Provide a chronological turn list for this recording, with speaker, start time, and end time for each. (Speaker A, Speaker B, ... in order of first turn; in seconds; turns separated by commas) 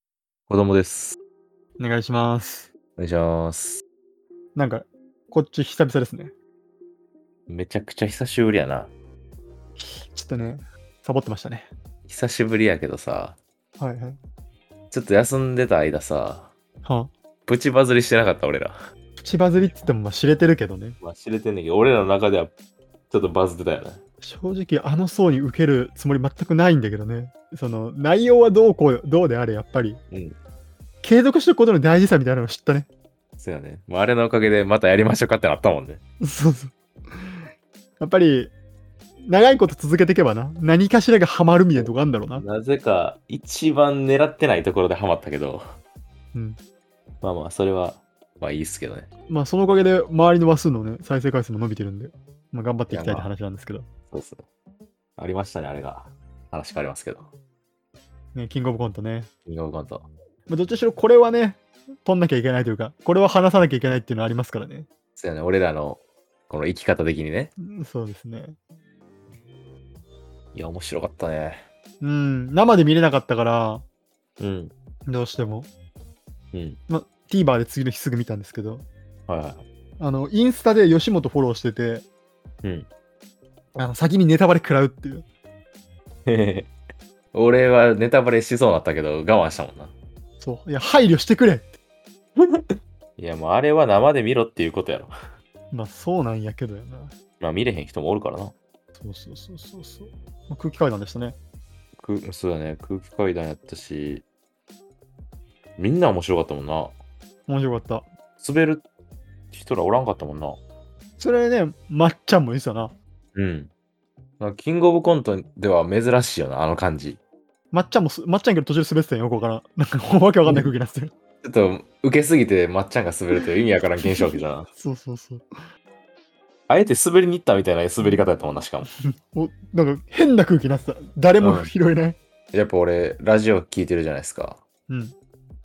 Speaker A: 0.5-1.2, Speaker B: 1.8-2.7, Speaker A: 3.0-3.8, Speaker B: 4.5-6.3, Speaker A: 7.5-8.9, Speaker B: 9.8-11.7, Speaker A: 12.1-13.4, Speaker B: 13.8-14.2, Speaker A: 14.9-16.5, Speaker B: 16.9-17.1, Speaker A: 17.5-18.8, Speaker B: 19.2-21.0, Speaker A: 21.0-22.5, Speaker A: 23.1-24.0, Speaker B: 24.2-30.0, Speaker A: 30.1-30.4, Speaker B: 31.0-32.9, Speaker A: 33.4-36.0, Speaker B: 36.2-37.5, Speaker B: 38.0-38.5, Speaker B: 39.3-42.5, Speaker A: 41.7-45.6, Speaker B: 46.3-46.6, Speaker A: 47.2-49.1, Speaker B: 49.3-53.9, Speaker A: 52.9-53.3, Speaker A: 54.1-54.5, Speaker A: 55.2-57.3, Speaker B: 58.4-59.3, Speaker A: 59.5-60.1, Speaker B: 60.5-64.9, Speaker A: 65.2-67.5, Speaker B: 67.6-68.6, Speaker A: 70.5-71.7, Speaker B: 72.0-73.8, Speaker A: 74.4-74.7, Speaker B: 75.1-75.7, Speaker A: 76.5-76.8, Speaker B: 76.9-78.8, Speaker A: 79.3-79.6, Speaker B: 80.0-82.1, Speaker A: 82.6-82.9, Speaker B: 83.8-85.2, Speaker A: 86.3-86.7, Speaker A: 87.3-89.9, Speaker B: 90.4-91.8, Speaker A: 92.4-95.1, Speaker B: 95.7-97.1, Speaker A: 97.4-98.5, Speaker B: 99.0-101.4, Speaker A: 102.0-104.2, Speaker A: 105.8-106.9, Speaker B: 107.5-108.1, Speaker A: 108.4-108.8, Speaker A: 109.5-110.6, Speaker B: 111.2-112.9, Speaker A: 113.3-113.7, Speaker A: 114.4-117.2, Speaker B: 117.7-121.1, Speaker A: 120.5-120.7, Speaker A: 121.4-124.7, Speaker B: 124.0-125.5, Speaker A: 126.7-128.9, Speaker B: 129.0-132.2, Speaker A: 131.4-131.7, Speaker A: 132.5-134.6, Speaker B: 134.9-135.2